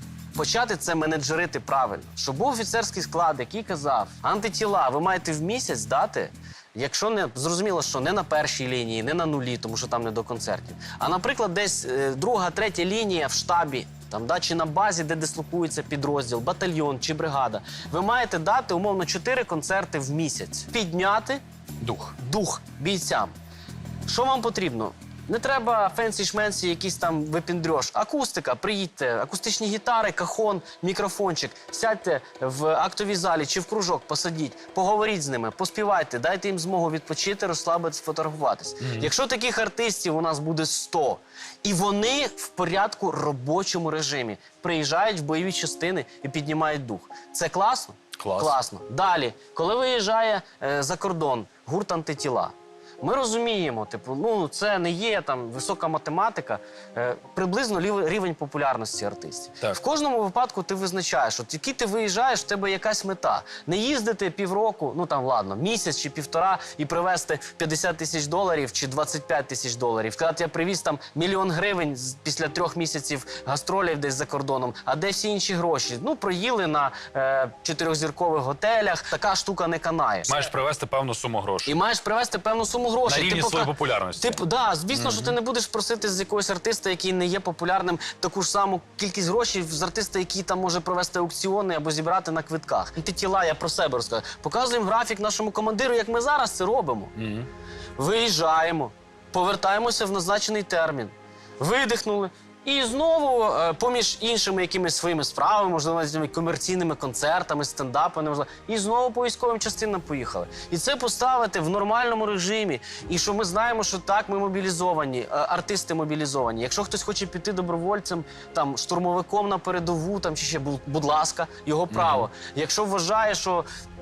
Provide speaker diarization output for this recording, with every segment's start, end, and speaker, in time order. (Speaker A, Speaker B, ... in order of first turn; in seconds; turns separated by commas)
Speaker A: 0.3-21.4, Speaker B: 21.8-22.1, Speaker A: 22.2-23.3, Speaker A: 24.1-80.5, Speaker B: 38.8-39.1, Speaker B: 48.2-48.6, Speaker B: 80.3-81.8, Speaker A: 81.7-97.1, Speaker B: 83.0-84.4, Speaker B: 84.9-85.3, Speaker B: 97.2-97.5, Speaker A: 98.0-123.7, Speaker B: 121.9-122.3